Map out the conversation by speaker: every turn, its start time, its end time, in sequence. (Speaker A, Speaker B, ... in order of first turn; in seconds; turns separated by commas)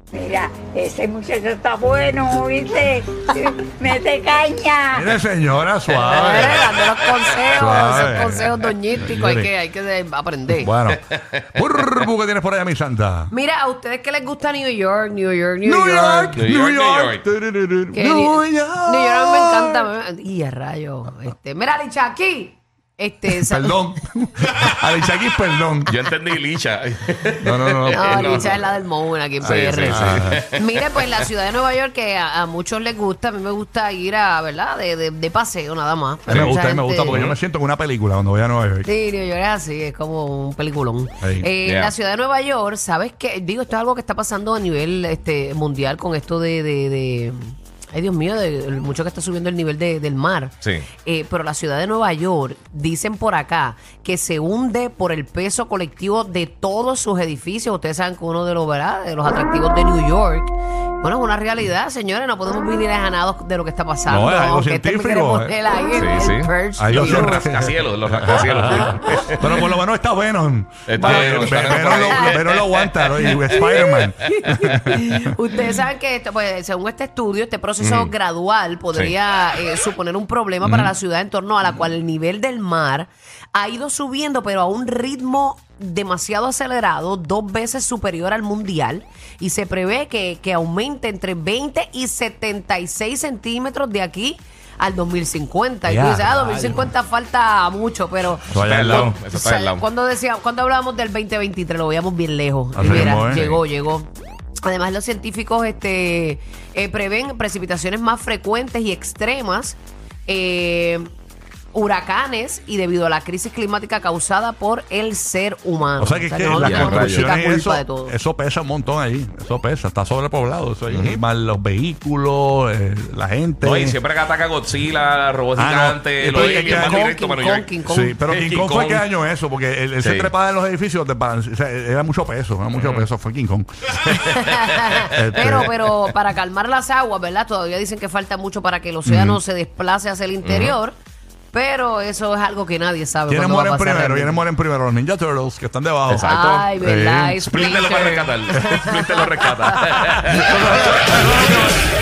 Speaker A: 0.1-5.1, Speaker B: 4.9-6.6, Speaker C: 5.9-8.6, Speaker D: 6.0-10.7, Speaker B: 7.5-9.5, Speaker B: 10.5-13.3, Speaker C: 10.9-12.1, Speaker D: 13.3-16.4, Speaker B: 15.6-19.9, Speaker C: 16.4-17.2, Speaker D: 17.9-23.8, Speaker B: 23.3-25.9, Speaker C: 25.9-28.7, Speaker B: 27.4-28.6, Speaker D: 27.9-37.3, Speaker C: 29.4-31.2, Speaker B: 29.4-30.4, Speaker C: 36.3-36.5, Speaker B: 36.3-38.9, Speaker C: 37.1-37.4, Speaker D: 38.8-47.4, Speaker B: 41.2-41.5, Speaker C: 41.6-41.9, Speaker D: 47.9-67.5, Speaker C: 50.6-50.9, Speaker B: 64.1-65.5, Speaker C: 65.9-69.5, Speaker B: 66.8-75.3, Speaker D: 68.2-69.6, Speaker C: 70.9-73.8, Speaker D: 71.0-72.6, Speaker D: 73.2-104.1, Speaker C: 77.8-78.1, Speaker B: 80.6-80.9, Speaker B: 95.8-96.9, Speaker B: 98.4-99.2, Speaker C: 98.5-99.8, Speaker B: 102.7-103.6, Speaker C: 102.8-103.5, Speaker D: 104.6-111.1, Speaker D: 111.7-118.1, Speaker B: 116.0-124.0, Speaker C: 116.6-117.3, Speaker C: 120.9-121.2, Speaker C: 123.6-129.1, Speaker B: 125.5-127.1, Speaker D: 126.2-128.2, Speaker B: 127.8-133.7, Speaker C: 130.0-130.3, Speaker C: 132.7-133.1, Speaker C: 134.0-135.7, Speaker D: 134.0-140.9, Speaker B: 135.1-135.7, Speaker B: 139.0-139.4, Speaker C: 140.4-140.8, Speaker D: 141.5-144.4, Speaker B: 143.3-147.5, Speaker C: 146.1-146.7, Speaker D: 146.2-149.8, Speaker C: 147.5-151.2, Speaker B: 149.7-151.8